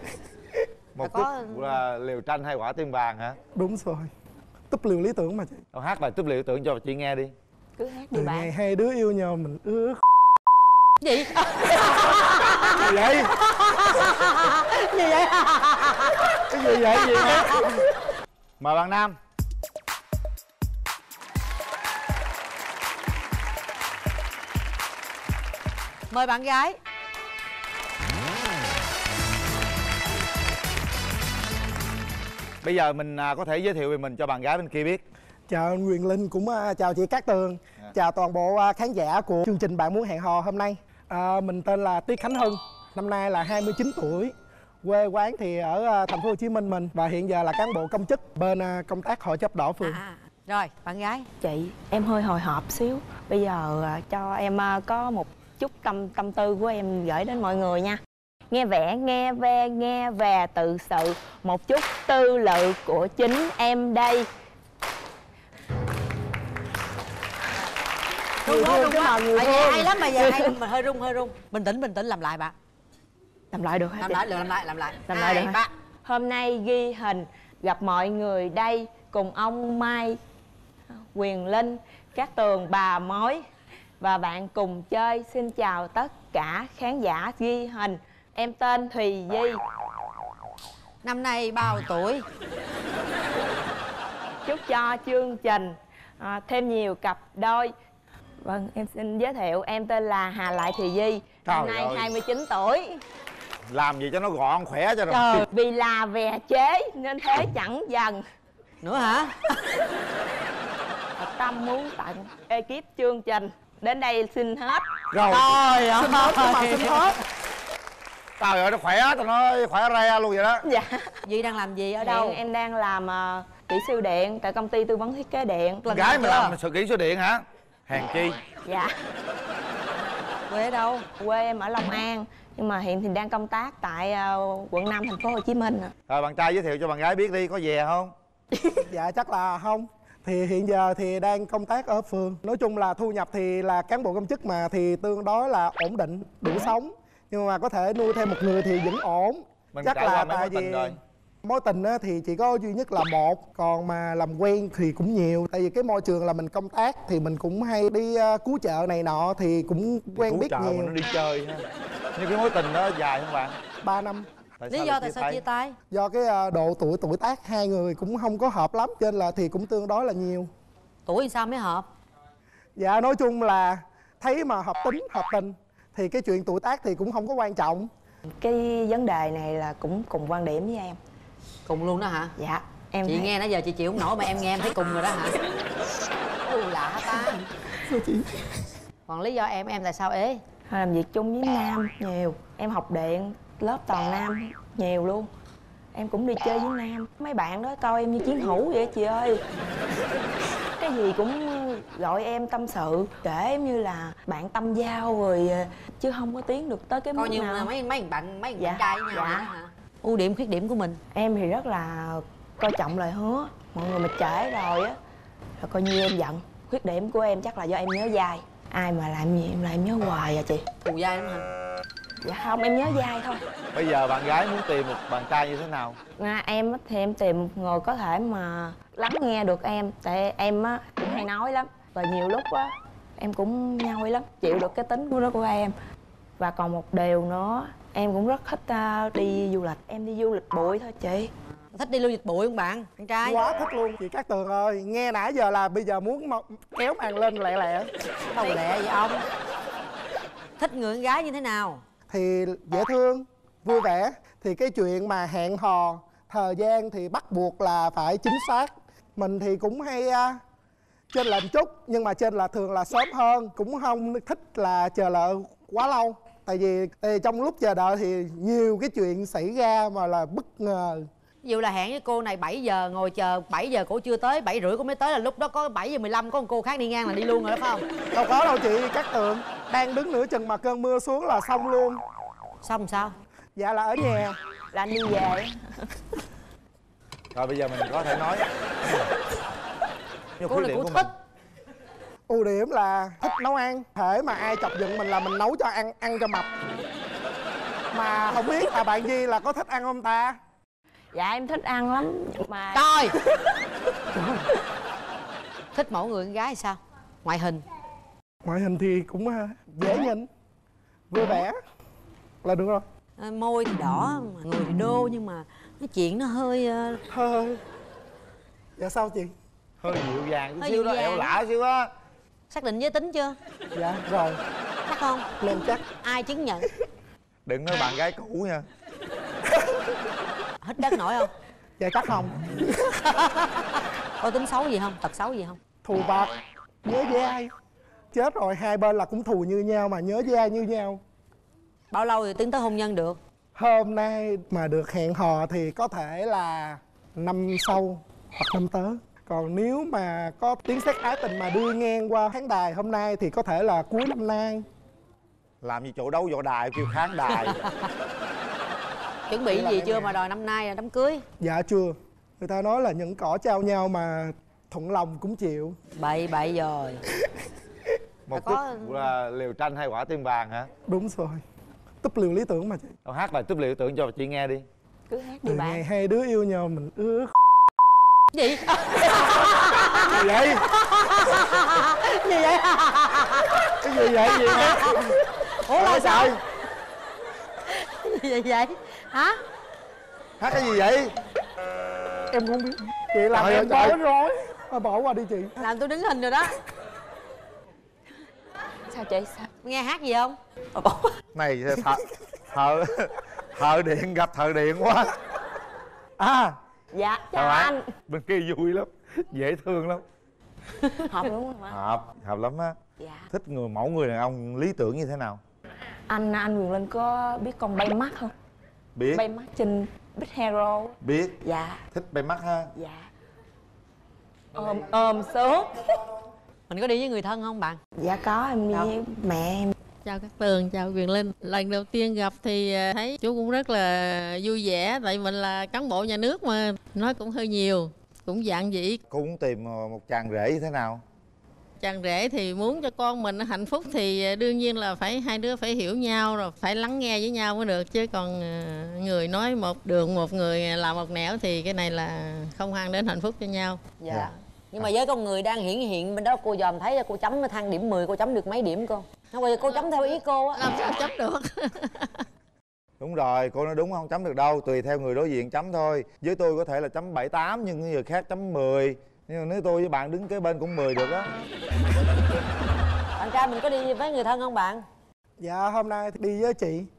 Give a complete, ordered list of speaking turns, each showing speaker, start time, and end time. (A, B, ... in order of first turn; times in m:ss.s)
0:00.9-0:03.4 A
0:01.0-0:01.8 B
0:03.5-0:04.1 C
0:04.7-0:05.6 C
0:05.7-0:07.3 A
0:07.8-0:08.5 D
0:08.1-0:10.0 C
0:11.0-0:17.8 B
0:12.7-0:13.3 A
0:16.5-0:17.4 C
0:18.6-0:19.2 A
0:26.1-0:26.8 B
0:32.6-0:35.0 A
0:35.5-0:50.0 C
0:49.8-0:51.3 B
0:51.4-1:04.3 D
1:08.4-1:12.5 B
1:08.4-1:09.8 C
1:09.4-1:10.6 D
1:13.5-1:14.2 D
1:14.0-1:15.7 B
1:15.1-1:20.2 D
1:20.9-1:23.4 D
1:24.0-1:29.6 D
1:31.0-1:32.2 B
1:34.4-1:37.7 D
1:38.4-1:43.0 D
1:41.4-1:42.1 A
1:43.7-1:45.4 A
1:45.1-1:45.4 B
1:45.5-1:48.2 D
1:48.8-1:49.7 B
1:51.2-1:54.8 D
1:55.1-1:55.9 A
1:55.3-1:57.1 B
1:56.0-1:57.1 C
1:58.4-2:00.6 A
2:00.6-2:01.2 D
2:01.2-2:02.4 B
2:02.0-2:05.8 D
2:05.8-2:06.6 B
2:05.9-2:08.4 A
2:08.6-2:08.9 D
2:10.5-2:11.1 B
2:11.2-2:15.9 D
2:16.1-2:18.1 A
2:18.8-2:40.9 C
2:29.7-2:31.0 A
2:40.1-2:41.6 A
2:42.2-2:43.6 A
2:43.8-2:44.3 C
2:44.6-2:45.4 A
2:44.7-2:45.8 B
2:45.9-2:50.5 C
2:51.1-2:51.9 B
2:52.8-2:57.9 C
2:58.3-3:01.0 D
3:01.7-3:02.3 B
3:02.4-3:03.3 D
3:03.0-3:05.4 B
3:06.4-3:07.4 B
3:07.9-3:08.2 C
3:09.1-3:10.4 B
3:10.7-3:15.3 D
3:15.9-3:19.4 D
3:20.8-3:27.7 D
3:27.1-3:31.0 B
3:28.6-3:29.5 D
3:31.1-3:35.0 D
3:35.6-3:40.6 D
3:40.8-3:41.5 B
3:42.2-3:43.4 D
3:43.7-3:46.0 A
3:46.2-3:55.7 D
3:56.4-4:01.3 D
4:01.7-4:03.4 B
4:03.2-4:07.9 C
4:08.3-4:09.2 B
4:10.6-4:11.8 B
4:12.1-4:20.4 C
4:21.1-4:31.1 C
4:31.4-4:37.8 B
4:38.1-4:42.0 C
4:42.6-4:43.2 B
4:43.6-4:44.4 C
4:44.7-4:45.9 D
4:47.3-4:48.4 A
4:50.4-4:51.1 A
4:50.5-4:51.1 B
4:52.3-4:56.5 C
4:57.9-5:00.4 C
5:01.1-5:03.5 D
5:02.7-5:03.2 B
5:05.7-5:07.6 B
5:08.4-5:10.3 C
5:11.1-5:11.6 C
5:12.4-5:12.8 C
5:13.2-5:17.0 B
5:17.1-5:17.6 C
5:18.8-5:19.3 C
5:19.8-5:21.9 A
5:20.6-5:21.4 B
5:22.5-5:23.4 B
5:23.8-5:24.4 C
5:24.9-5:25.3 B
5:25.4-5:25.8 C
5:26.0-5:26.7 B
5:27.5-5:28.7 A
5:29.6-5:29.8 C
5:30.6-5:31.3 B
5:31.8-5:32.9 C
5:33.0-5:35.6 B
5:35.8-5:37.5 C
5:38.1-5:41.0 C
5:41.9-5:43.2 B
5:43.6-5:54.6 C
5:55.6-5:57.6 A
5:57.3-5:57.9 B
5:59.3-6:01.2 B
5:59.5-6:00.2 C
6:01.4-6:05.8 C
6:06.0-6:07.0 B
6:08.3-6:10.7 A
6:08.3-6:09.1 B
6:10.9-6:11.4 C
6:12.0-6:12.9 C
6:13.0-6:14.7 A
6:15.1-6:15.8 D
6:15.4-6:17.3 C
6:18.3-6:23.8 B
6:20.1-6:20.6 A
6:23.8-6:24.8 C
6:24.3-6:26.4 B
6:25.7-6:26.4 A
6:27.6-6:29.4 B
6:30.4-6:31.1 A
6:32.3-6:35.6 C
6:33.3-6:34.0 A
6:35.6-6:36.6 B
6:38.9-6:39.5 D
6:39.6-6:40.4 B
6:40.8-6:41.2 D
6:41.4-6:45.2 A
6:46.2-6:46.6 A
6:46.9-6:47.8 D
6:47.3-6:50.0 A
6:51.1-6:51.8 D
6:51.7-6:52.8 A
6:53.0-6:53.3 D
6:53.3-6:55.4 A
6:56.1-6:58.3 D
6:59.0-6:59.2 A
6:59.1-7:01.8 D
7:01.0-7:01.4 A
7:01.9-7:02.7 A
7:02.8-7:03.1 D
7:04.5-7:06.1 D
7:06.7-7:07.8 B
7:08.0-7:09.8 D
7:10.0-7:19.0 E
7:19.1-7:21.0 A
7:21.8-7:34.0 E
7:34.0-7:40.6 B
7:40.6-7:42.2 E
7:43.0-7:51.3 A
7:53.2-7:54.8 B
7:55.4-7:56.9 C